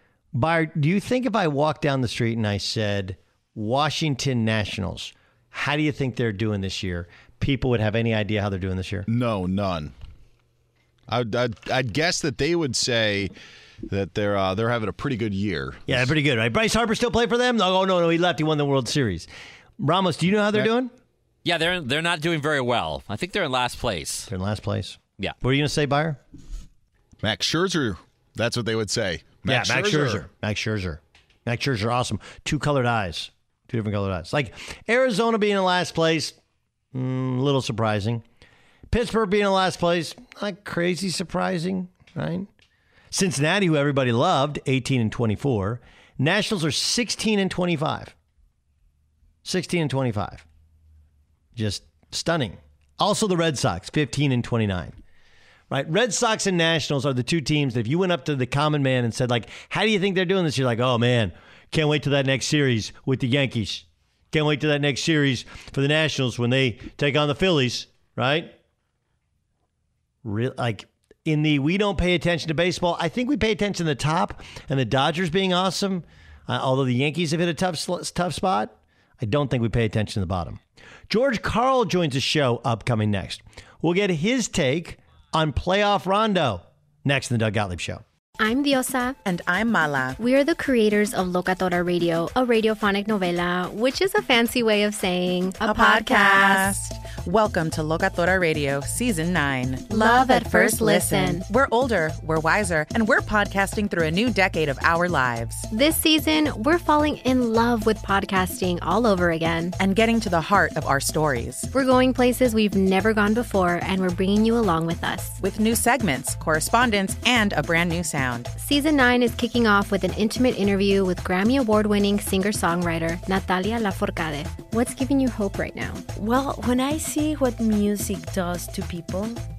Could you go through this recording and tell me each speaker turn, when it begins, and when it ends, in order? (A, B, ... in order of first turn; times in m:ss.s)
0:00.3-0:09.1 A
0:09.1-0:09.9 B
0:11.1-0:13.3 B
0:13.9-0:16.2 B
0:15.9-0:20.9 A
0:21.4-0:24.2 C
0:24.3-0:26.2 A
0:27.2-0:30.3 B
0:29.5-0:36.4 A
0:36.9-0:38.2 A
0:38.9-0:42.5 A
0:43.1-0:48.2 A
0:49.4-0:50.4 A
0:51.6-0:55.0 A
0:55.7-1:08.6 A
1:10.2-1:28.0 A
1:28.4-1:29.2 D
1:29.2-1:30.2 E
1:30.2-1:36.7 D
1:35.6-1:45.7 E
1:39.9-1:41.4 D
1:45.7-1:49.8 D
1:49.8-1:51.7 E
1:51.7-1:55.4 D
1:55.4-1:58.5 E
1:58.6-2:06.0 D
2:06.2-2:09.4 F